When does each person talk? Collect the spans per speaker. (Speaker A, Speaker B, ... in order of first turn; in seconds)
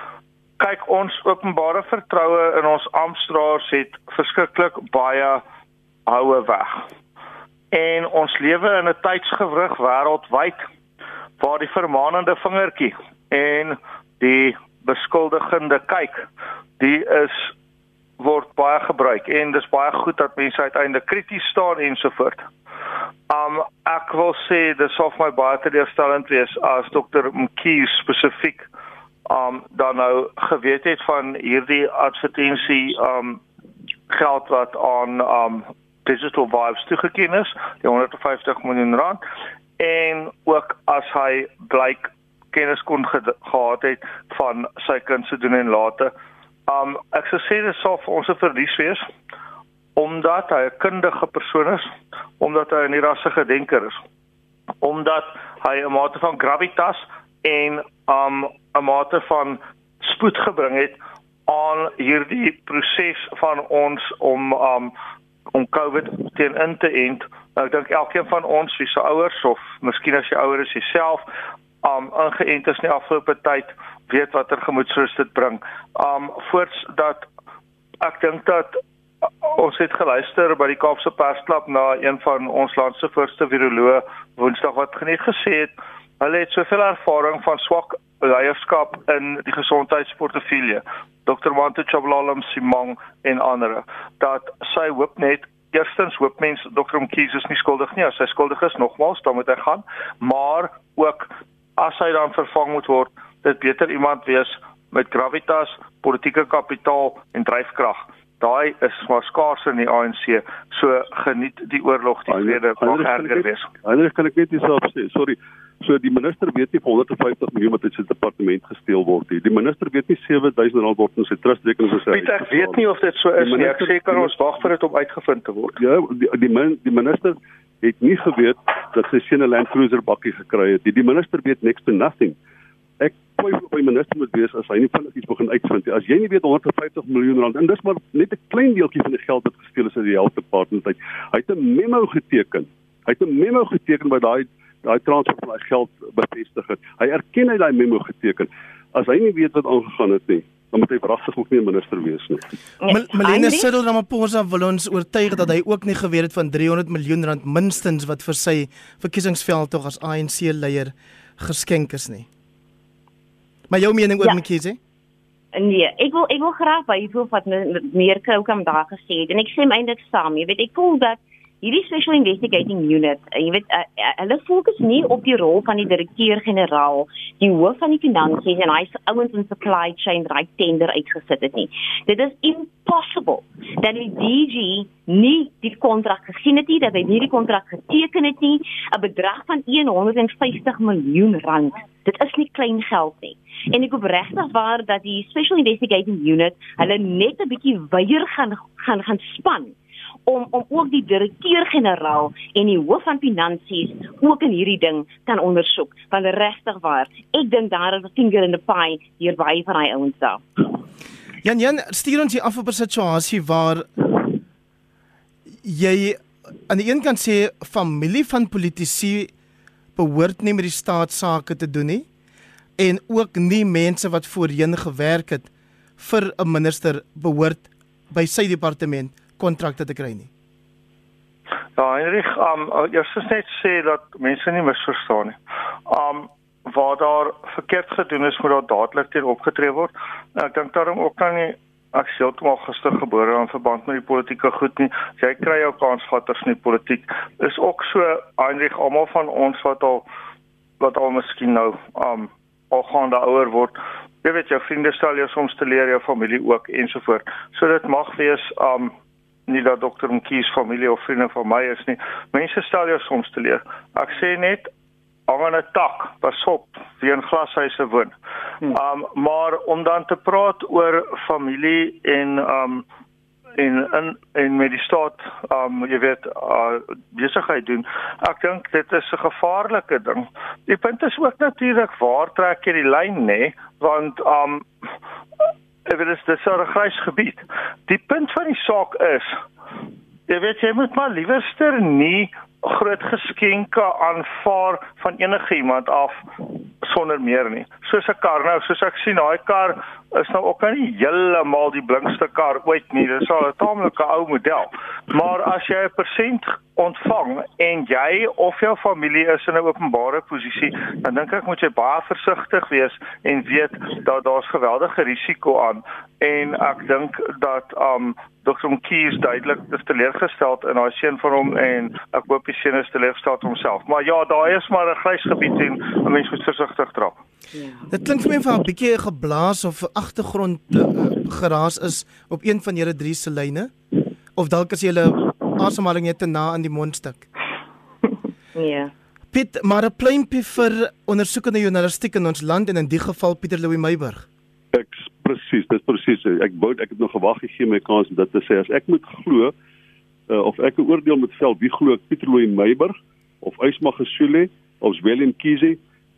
Speaker A: 0.6-5.4, 6.0-6.9, 7.7-10.6, 11.4-16.3, 16.8-17.5, 18.2-22.4, 23.3-28.7, 29.3-33.4, 34.1-39.2, 39.8-46.1, 46.7-49.1, 50.0-54.0, 54.8-64.9, 65.5-71.2, 71.8-77.3, 78.0-113.7, 122.1-125.8, 231.8-250.1, 250.8-258.9, 259.5-264.7, 265.3-272.8, 273.6-284.6, 285.9-289.4, 290.3-296.2, 296.8-327.1
Speaker B: 112.3-122.8, 123.4-124.3, 125.8-132.3, 133.0-152.4, 344.7-349.5, 350.3-355.8
Speaker C: 152.8-153.7, 165.5-199.7, 200.2-210.6, 327.5-327.9, 338.5-338.9
Speaker D: 152.9-162.3, 163.7-164.8, 211.4-214.3, 215.6-219.3, 219.9-222.0, 222.8-230.3, 327.9-333.7, 334.4-337.3, 339.3-344.2